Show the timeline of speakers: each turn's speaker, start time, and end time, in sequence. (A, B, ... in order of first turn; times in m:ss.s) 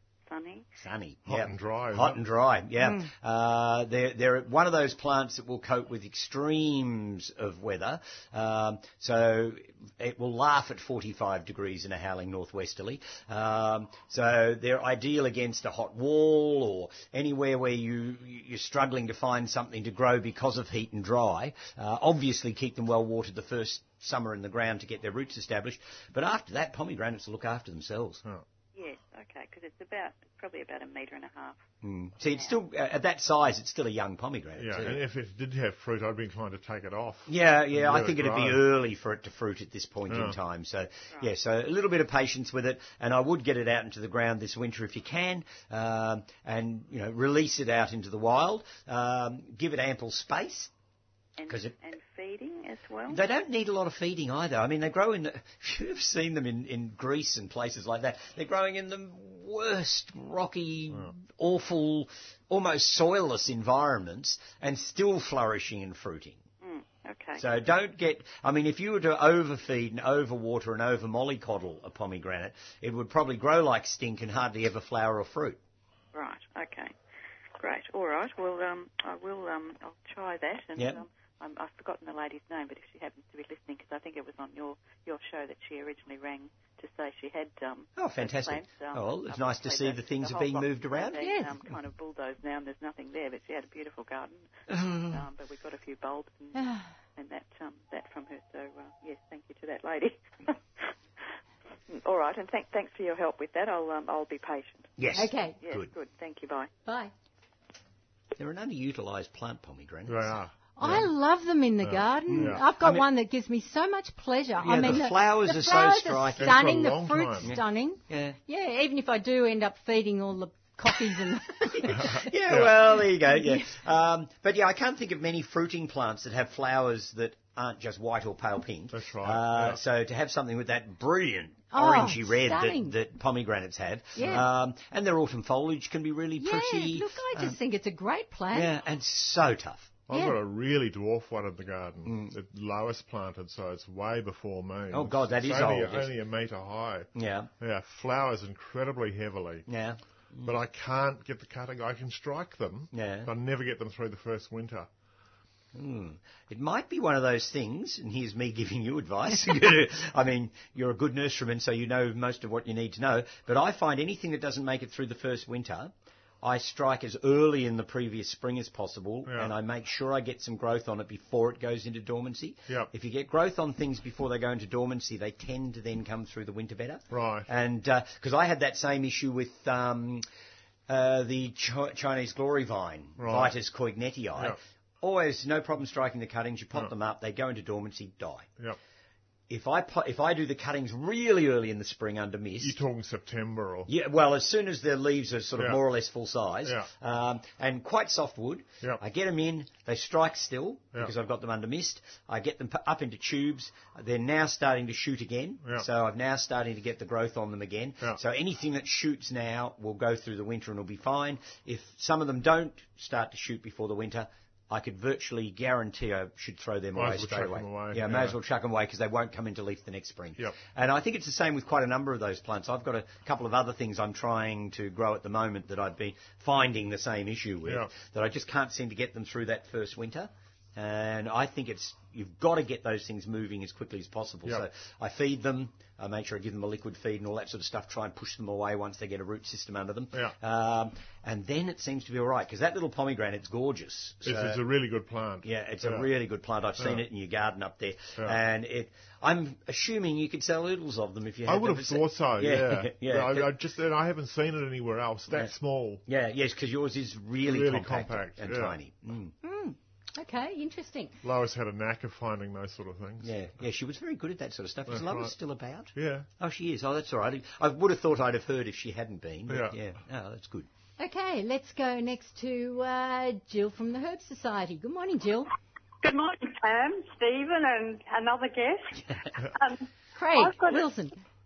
0:00.3-0:00.7 A
0:00.8-0:28.2 B
0:01.3-0:02.2 C
0:28.8-0:31.6 A
0:31.8-0:35.0 B
0:32.3-0:32.6 A
0:34.6-0:38.6 C
0:37.3-0:50.7 B
0:40.1-0:40.4 C
0:51.4-0:53.2 A
0:51.5-0:51.7 B
0:53.1-1:06.4 B
1:06.6-1:07.4 A
1:07.4-1:15.6 B
1:16.1-1:16.9 A
1:17.6-1:40.9 A
1:20.8-1:21.0 B
1:28.0-1:31.2 B
1:31.2-1:31.5 D
1:34.7-1:35.2 B
1:36.5-1:36.9 D
1:41.9-1:46.7 A
1:45.0-1:45.9 B
1:45.2-1:45.6 D
1:46.8-1:47.1 D
1:48.4-1:50.3 B
1:50.1-1:51.1 C
1:50.8-2:02.2 D
1:51.8-1:52.6 C
1:52.3-1:53.0 B
1:54.6-1:56.6 B
1:56.4-1:57.5 C
1:57.4-1:58.4 B
2:01.7-2:17.6 B
2:01.9-2:02.7 C
2:03.4-2:03.6 D
2:08.9-2:09.8 C
2:11.7-2:13.0 D
2:14.2-2:14.5 D
2:16.4-2:18.7 D
2:18.5-2:19.9 B
2:20.1-2:27.1 C
2:20.1-2:20.4 D
2:22.1-2:22.4 B
2:24.9-2:26.1 B
2:27.2-2:27.5 B
2:27.6-2:29.6 C
2:29.7-2:30.5 B
2:30.4-2:34.9 C
2:32.9-2:33.3 B
2:35.7-3:00.2 B
2:49.3-2:49.5 C
2:57.1-2:57.5 C
3:00.9-3:08.5 B
3:03.2-3:03.5 C
3:09.5-3:12.8 B
3:12.6-3:13.9 C
3:13.9-4:04.6 B
3:37.0-3:38.4 C
4:04.2-4:06.1 C
4:05.4-4:13.5 B
4:06.8-4:07.0 C
4:11.5-4:16.0 C
4:16.1-4:19.3 B
4:17.4-4:18.8 C
4:19.4-4:21.1 D
4:21.2-4:23.3 C
4:23.2-4:30.7 B
4:24.9-4:25.3 C
4:26.0-4:26.3 C
4:29.5-4:29.8 C
4:31.0-4:35.5 D
4:36.0-4:39.0 E
4:39.5-4:40.8 E
4:40.2-4:41.2 D